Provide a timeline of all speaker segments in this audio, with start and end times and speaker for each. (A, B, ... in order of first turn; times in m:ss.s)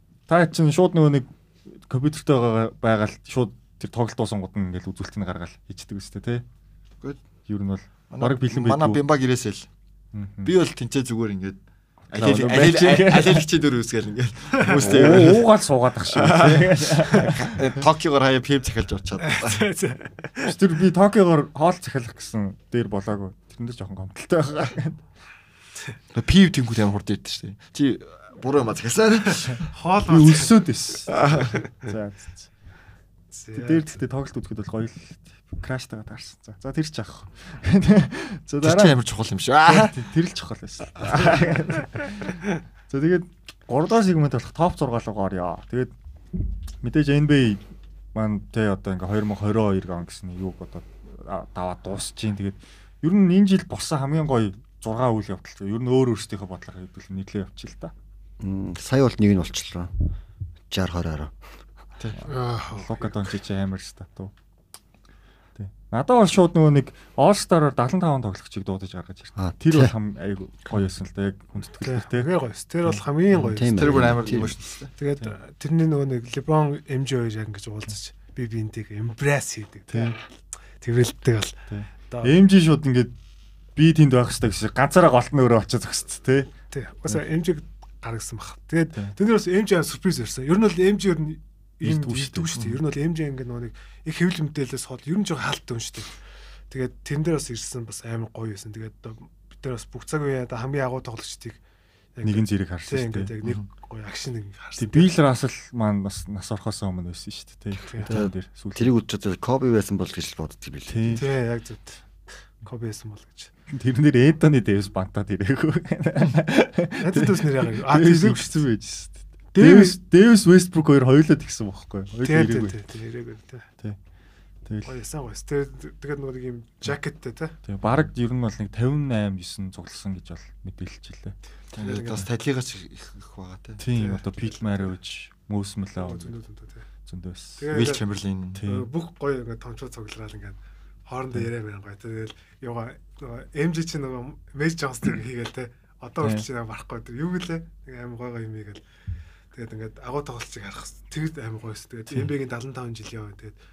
0:00.3-0:06.4 A
0:07.5-0:09.0 A
0:08.1-0:09.7 B
0:10.1-0:10.5 A
0:10.4-0:11.6 B
0:12.1-0:13.5 A
0:12.1-0:15.5 B
0:14.7-0:17.6 A
0:16.1-0:19.6 B
0:19.2-0:20.5 C
0:20.4-0:25.0 A
0:26.1-0:29.7 B
0:29.7-0:30.6 C
0:30.0-0:32.5 A
0:31.1-0:31.6 B
0:33.3-0:34.0 C
0:33.5-0:39.0 A
0:38.6-0:40.0 B
0:39.6-0:45.9 A
0:46.8-0:57.9 A
0:58.4-0:59.9 D
1:00.7-1:01.3 D
1:02.2-1:04.3 A
1:02.2-1:03.2 C
1:05.6-1:12.3 A
1:09.4-1:09.9 D
1:11.8-1:14.1 C
1:13.5-1:14.5 D
1:13.8-1:14.9 B
1:15.0-1:20.3 C
1:19.9-1:20.2 A
1:20.8-1:21.5 C
1:21.7-1:23.1 A
1:23.8-1:26.5 A
1:26.7-1:36.1 C
1:31.8-1:32.6 A
1:36.7-1:41.6 C
1:42.2-1:45.1 C
1:42.2-1:43.3 A
1:44.8-1:48.9 A
1:47.8-1:48.1 C
1:48.1-1:51.2 D
1:50.9-1:51.2 A
1:51.2-1:52.0 C
1:52.6-1:53.5 C
1:53.7-2:02.8 A
1:57.0-1:58.6 C
1:59.5-2:00.0 C
2:02.2-2:03.7 C
2:04.8-2:07.5 C
2:07.6-2:11.4 A
2:11.7-2:13.8 B
2:11.8-2:12.3 C
2:13.8-2:16.3 A
2:13.9-2:14.9 C
2:16.0-2:16.9 C
2:17.0-2:17.7 A
2:17.6-2:18.0 C
2:17.7-2:18.6 B
2:18.5-2:18.9 A
2:18.6-2:28.8 C
2:26.2-2:26.4 A
2:29.5-2:33.5 C